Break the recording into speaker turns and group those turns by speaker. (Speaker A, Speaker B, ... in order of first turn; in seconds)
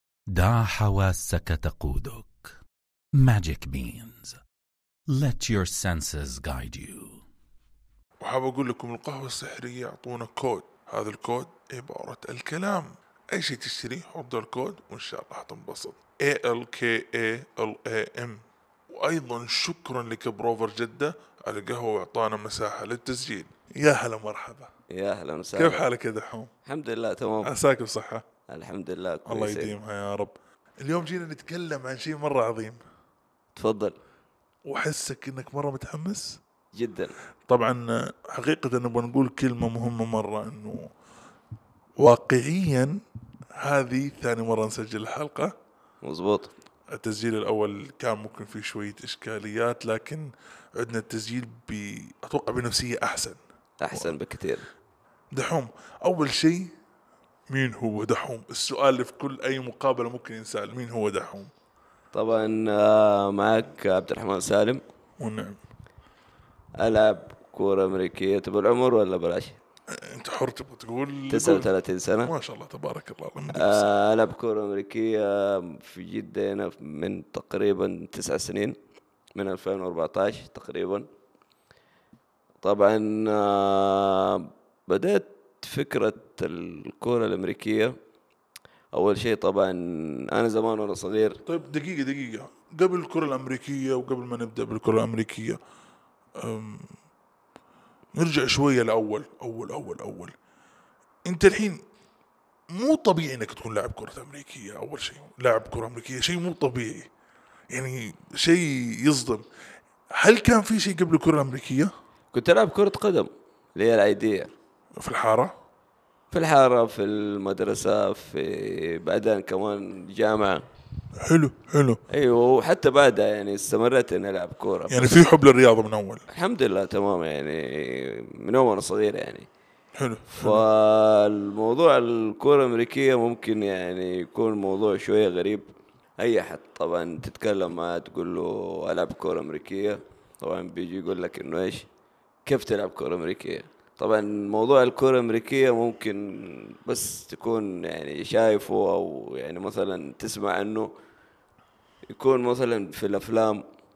Speaker A: 0.3-2.5, 3.2-4.4, 5.1-7.2
Speaker B: 8.2-24.7, 25.6-26.5, 27.4-28.2, 29.3-32.8, 34.6-36.4, 37.5-40.9, 42.0-43.0, 43.5-45.5, 46.9-53.4, 55.3-56.7, 57.5-61.5, 65.2-65.6, 69.9-71.7, 72.2-73.9, 91.5-95.6, 96.4-96.9, 98.1-100.3, 101.2-101.8, 102.7-107.1, 107.7-109.4, 110.1-111.9, 115.0-115.5, 121.2-122.0, 124.9-126.2, 129.9-130.6
Speaker C: 24.9-25.8, 26.6-27.5, 28.5-29.7, 33.5-34.0, 36.7-37.1, 46.0-46.5, 53.8-54.6, 62.1-64.8, 66.8-69.6, 71.3-72.3, 73.5-78.8, 79.3-81.1, 82.6-88.0, 88.9-91.4, 112.3-114.5, 116.3-120.6, 122.1-125.1, 126.3-129.5, 130.3-141.9, 142.4-150.9, 152.1-153.6